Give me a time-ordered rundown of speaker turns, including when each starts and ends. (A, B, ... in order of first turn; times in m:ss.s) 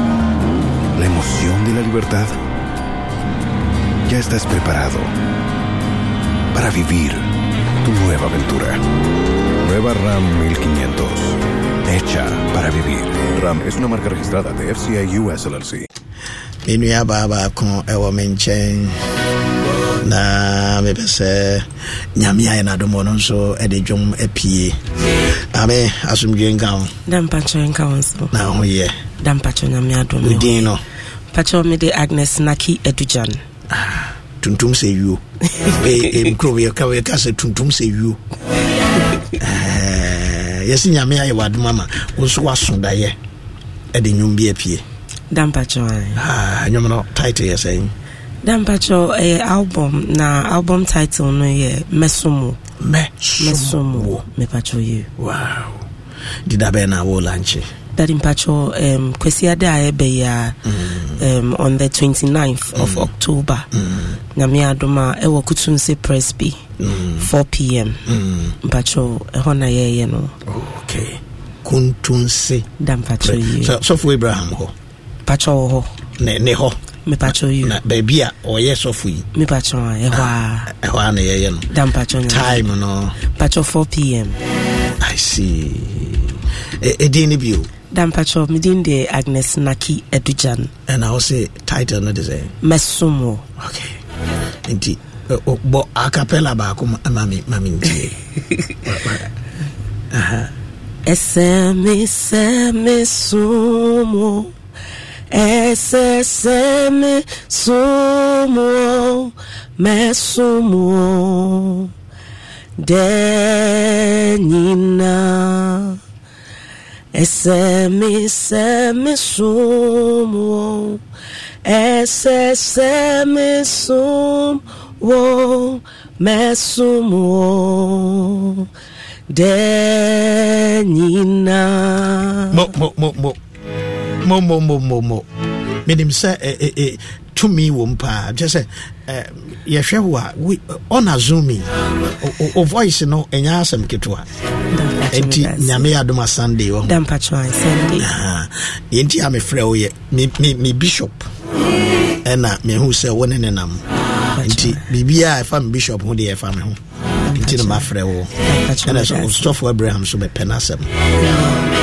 0:00.9-0:02.4 A
0:04.0-0:05.1 A
0:06.5-0:07.3 A
0:07.8-0:08.8 A
0:09.6-0:15.8 A
0:16.6-0:19.0 B
0:20.0-0:24.8 B
0:25.5-0:26.9 B
0:27.1-0:28.3 C
0:28.3-0:29.0 B
0:29.2-0:30.6 C
0:30.2-0:30.8 B
0:31.3-0:33.4 C
0:33.7-0:38.2 B
0:39.4-0:43.2 B
0:43.9-0:44.8 B
0:45.3-0:46.2 C
0:46.2-0:47.9 B
0:48.4-0:52.6 C
0:52.8-0:54.2 B
0:53.4-0:55.1 C
0:55.2-0:55.8 B
0:56.4-0:57.7 B
0:58.0-1:00.5 C
1:00.7-1:01.1 B
1:01.2-1:03.6 C
1:02.8-1:03.1 B
1:03.7-1:04.1 B
1:04.4-1:06.6 C
1:06.8-1:07.2 B
1:07.2-1:08.0 C
1:08.1-1:08.5 B
1:08.6-1:10.3 C
1:10.5-1:12.7 B
1:12.8-1:13.7 C
1:13.2-1:14.7 B
1:15.3-1:16.0 C
1:16.2-1:16.8 B
1:17.0-1:17.8 C
1:17.3-1:19.3 B
1:19.3-1:20.7 C
1:20.1-1:21.7 B
1:21.7-1:22.6 C
1:22.3-1:23.2 B
1:23.3-1:24.4 C
1:25.0-1:27.7 B
1:27.9-1:30.7 C
1:30.9-1:32.5 B
1:32.6-1:33.4 C
1:33.6-1:34.0 B
1:34.6-1:38.2 B
1:38.8-1:39.3 B
1:40.1-1:40.5 B
1:41.0-1:44.5 C
1:45.3-1:51.9 C
1:52.8-1:56.0 C
1:57.1-2:01.0 C
2:01.6-2:08.6 C
2:09.3-2:12.6 C
2:12.5-2:13.4 B
2:14.2-2:15.2 B
2:15.8-2:21.7 B
2:22.2-2:24.3 B
2:24.7-2:25.9 C
2:25.1-2:27.0 B
2:26.8-2:28.1 C
2:28.0-2:31.3 B
2:32.2-2:33.8 B
2:34.3-2:34.8 C
2:34.4-2:36.8 B
2:37.2-2:37.8 C
2:37.3-2:41.0 B
2:38.4-2:39.5 C
2:41.2-2:41.6 C